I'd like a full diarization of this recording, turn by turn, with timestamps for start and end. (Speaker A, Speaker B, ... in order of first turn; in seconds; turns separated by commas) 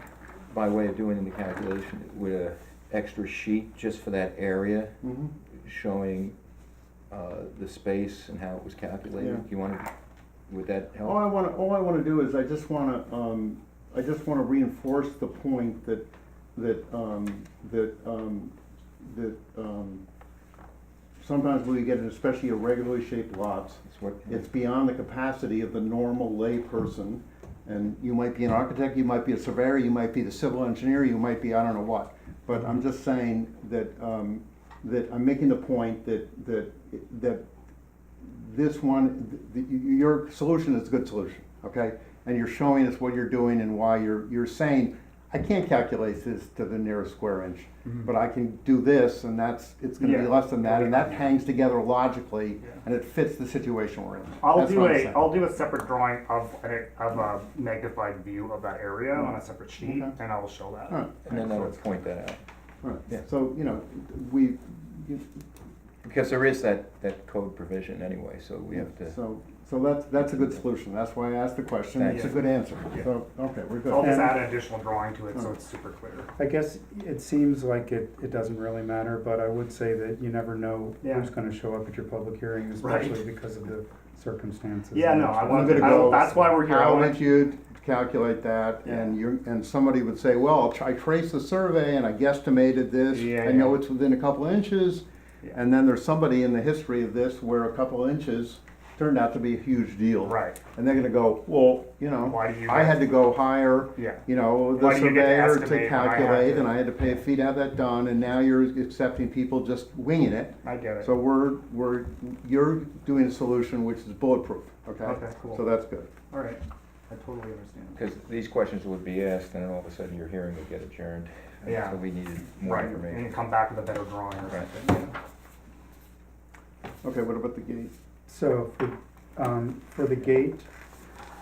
Speaker A: 0.5-5.0, Speaker B: 5.0-5.3, Speaker A: 5.5-6.3, Speaker A: 7.1-9.9, Speaker B: 9.2-9.4, Speaker A: 10.5-11.2, Speaker B: 11.0-20.0, Speaker B: 21.2-37.4, Speaker A: 23.8-24.4, Speaker B: 38.2-55.3, Speaker C: 50.0-51.3, Speaker C: 54.4-62.0, Speaker B: 59.2-60.1, Speaker A: 61.2-62.4, Speaker B: 62.8-65.4, Speaker A: 66.0-69.2, Speaker B: 68.7-74.1, Speaker A: 71.9-72.3, Speaker C: 72.1-73.1, Speaker C: 73.9-76.3, Speaker D: 74.0-74.4, Speaker D: 76.4-86.5, Speaker C: 81.0-81.3, Speaker C: 82.8-83.2, Speaker C: 84.9-87.2, Speaker B: 85.5-116.1, Speaker C: 88.8-89.2, Speaker C: 93.1-93.8, Speaker C: 100.2-100.6, Speaker C: 102.2-103.0, Speaker C: 104.0-104.2, Speaker C: 104.8-106.9, Speaker C: 110.6-111.1, Speaker C: 115.0-115.6, Speaker C: 116.3-118.0, Speaker A: 117.9-123.3, Speaker C: 121.6-122.0, Speaker C: 122.6-125.1, Speaker B: 127.0-127.9, Speaker D: 128.3-130.7